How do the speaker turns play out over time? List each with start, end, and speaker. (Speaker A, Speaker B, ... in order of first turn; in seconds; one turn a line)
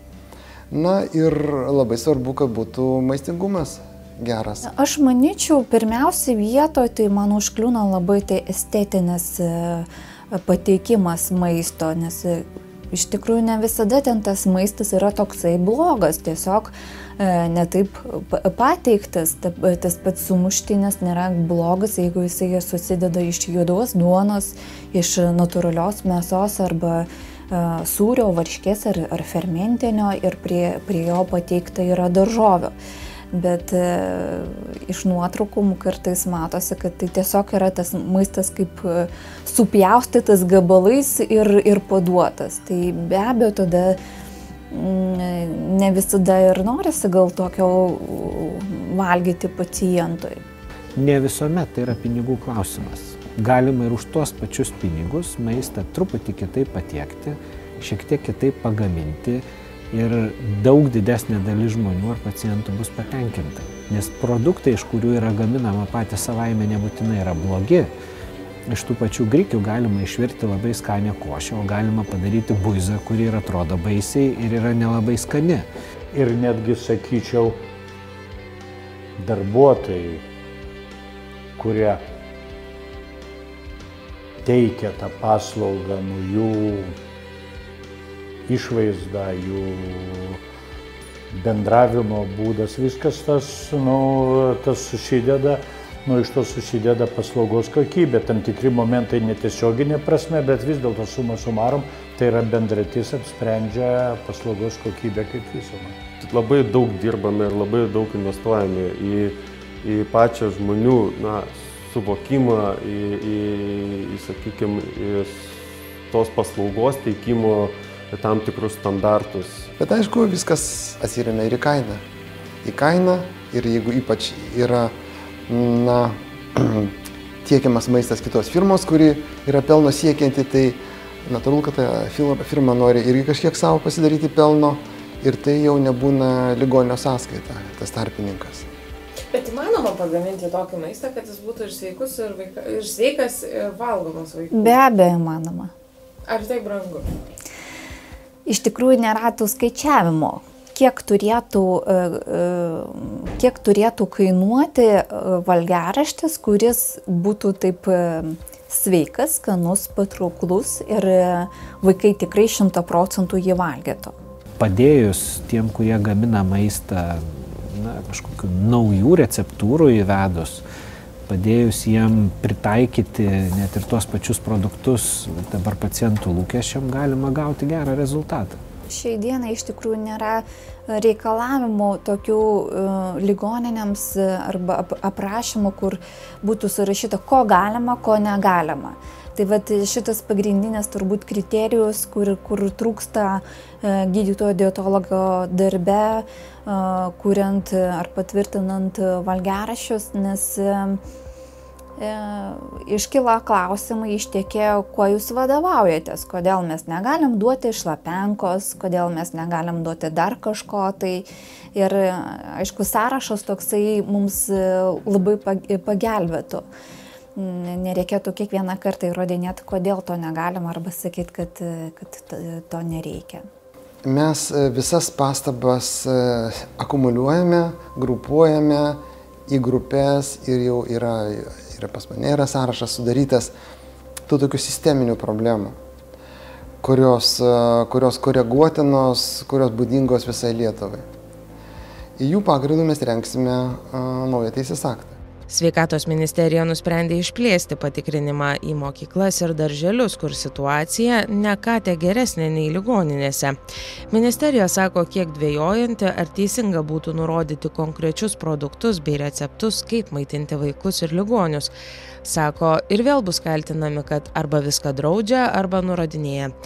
Speaker A: 0.7-4.6
Speaker B: 4.6-32.7
Speaker B: 33.3-44.0
Speaker B: 44.7-50.4
Speaker C: 51.0-67.9
Speaker C: 68.7-75.7
Speaker D: 76.1-77.6
Speaker D: 79.2-80.2
Speaker D: 81.6-82.0
Speaker D: 84.4-87.0
Speaker D: 88.5-90.4
Speaker D: 91.3-105.9
Speaker E: 106.2-119.7
Speaker A: 119.8-122.0
Speaker A: 122.6-124.9
Speaker A: 125.5-138.7
Speaker F: 139.3-144.8
Speaker B: 144.5-145.7
Speaker F: 146.3-147.0
Speaker B: 148.4-164.1
Speaker C: 164.6-170.6
Speaker C: 171.3-178.6
Speaker B: 178.9-201.0
Speaker B: 202.0-216.6
Speaker B: 217.3-223.4
Speaker A: 224.0-233.5
Speaker A: 234.3-235.8
Speaker A: 236.8-241.0
Speaker A: 242.2-245.2
Speaker G: 245.5-253.6
Speaker G: 254.1-261.7
Speaker G: 262.2-266.5